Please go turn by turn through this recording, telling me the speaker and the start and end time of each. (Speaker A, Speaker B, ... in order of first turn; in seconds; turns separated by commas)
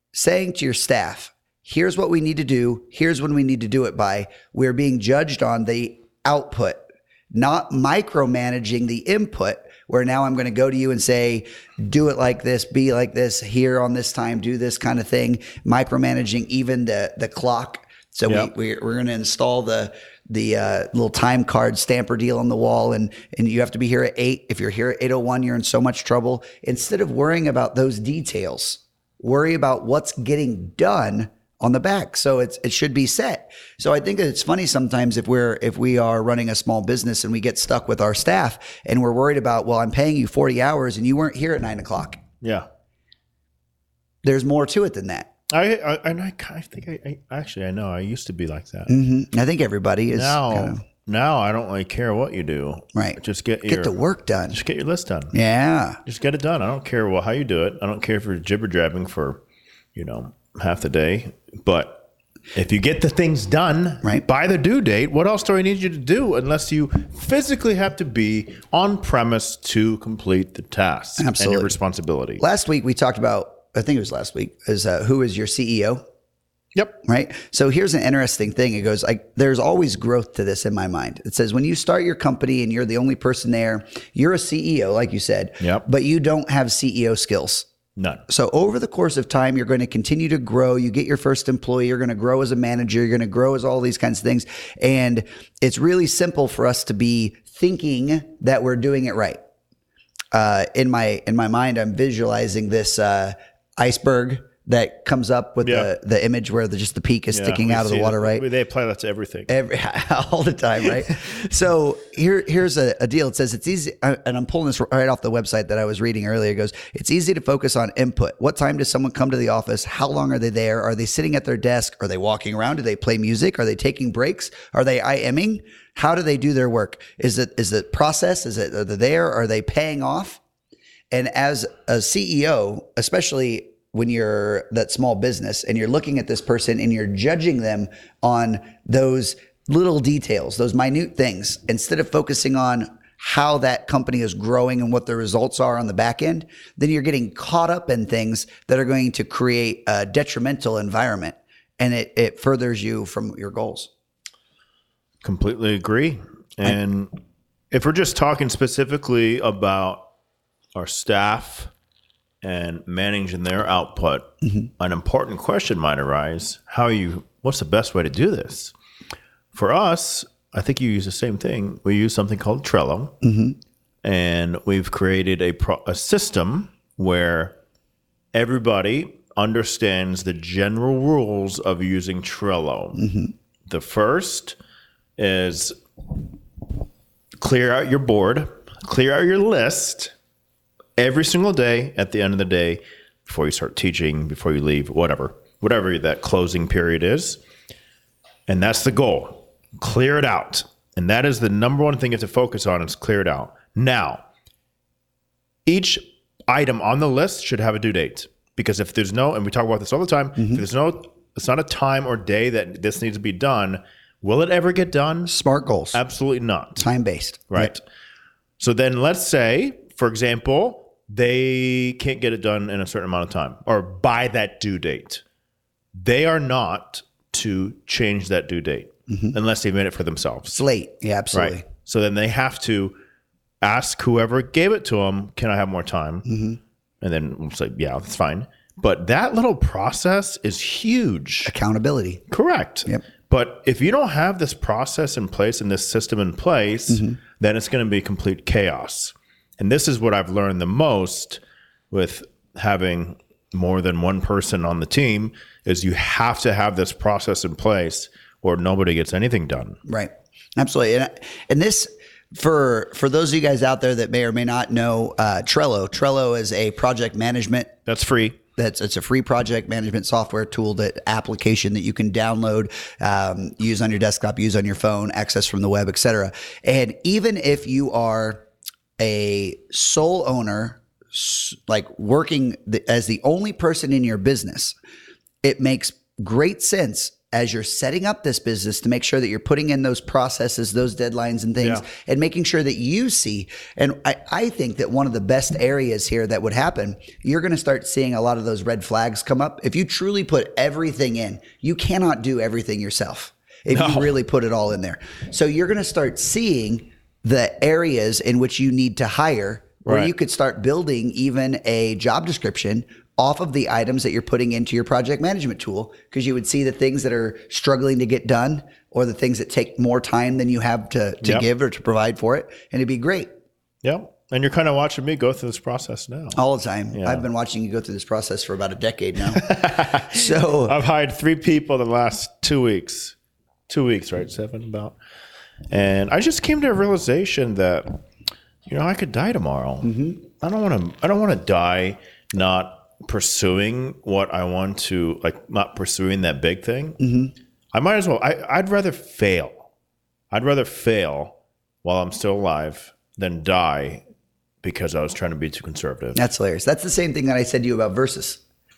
Speaker A: 0.1-42.2, Speaker B: 42.4-42.7, Speaker A: 44.2-45.3, Speaker B: 45.5-48.9, Speaker A: 48.9-50.8, Speaker B: 50.1-54.0, Speaker A: 53.0-54.6, Speaker B: 54.5-55.4, Speaker A: 55.3-56.0, Speaker B: 56.0-59.4, Speaker B: 60.0-72.4, Speaker A: 71.2-71.7, Speaker A: 72.4-76.0, Speaker B: 76.8-77.0, Speaker A: 77.0-87.7, Speaker B: 85.6-85.8, Speaker B: 88.0-88.2, Speaker A: 88.3-99.4, Speaker A: 100.3-108.5, Speaker B: 105.6-105.9, Speaker B: 107.3-109.5, Speaker A: 109.5-130.4, Speaker A: 131.1-153.9, Speaker B: 155.2-157.2, Speaker B: 157.7-160.1, Speaker B: 160.8-161.7, Speaker B: 162.4-168.7, Speaker B: 169.5-173.2, Speaker A: 173.2-173.6, Speaker B: 174.0-177.6, Speaker B: 178.3-183.1, Speaker A: 183.0-183.3, Speaker B: 183.7-184.6, Speaker B: 185.2-185.8, Speaker B: 187.4-190.1, Speaker B: 191.0-197.4, Speaker B: 198.5-204.2, Speaker B: 205.7-215.4, Speaker A: 210.4-210.6, Speaker A: 215.3-216.0, Speaker B: 215.9-216.8, Speaker A: 216.8-217.7, Speaker B: 217.5-217.8, Speaker B: 218.6-225.2, Speaker B: 225.9-230.6, Speaker A: 229.1-229.4, Speaker A: 230.5-231.6, Speaker B: 231.3-233.0, Speaker B: 233.6-236.3, Speaker A: 236.3-236.6, Speaker B: 237.0-241.5, Speaker A: 241.5-242.2, Speaker B: 242.3-251.4, Speaker A: 246.9-247.2, Speaker B: 251.9-259.8, Speaker A: 259.9-267.7, Speaker B: 267.9-268.4, Speaker A: 268.6-278.4, Speaker A: 279.0-284.8, Speaker A: 285.4-323.3, Speaker B: 303.7-304.1, Speaker B: 309.9-310.1, Speaker B: 323.8-326.4, Speaker A: 326.4-329.5, Speaker B: 326.9-327.3, Speaker B: 329.3-333.2, Speaker A: 330.1-330.8, Speaker B: 333.7-335.0, Speaker B: 335.7-338.0, Speaker B: 338.7-347.0, Speaker A: 339.8-340.2, Speaker A: 347.0-347.3, Speaker B: 347.7-349.7, Speaker B: 350.3-354.0, Speaker B: 354.6-356.2, Speaker A: 356.1-358.4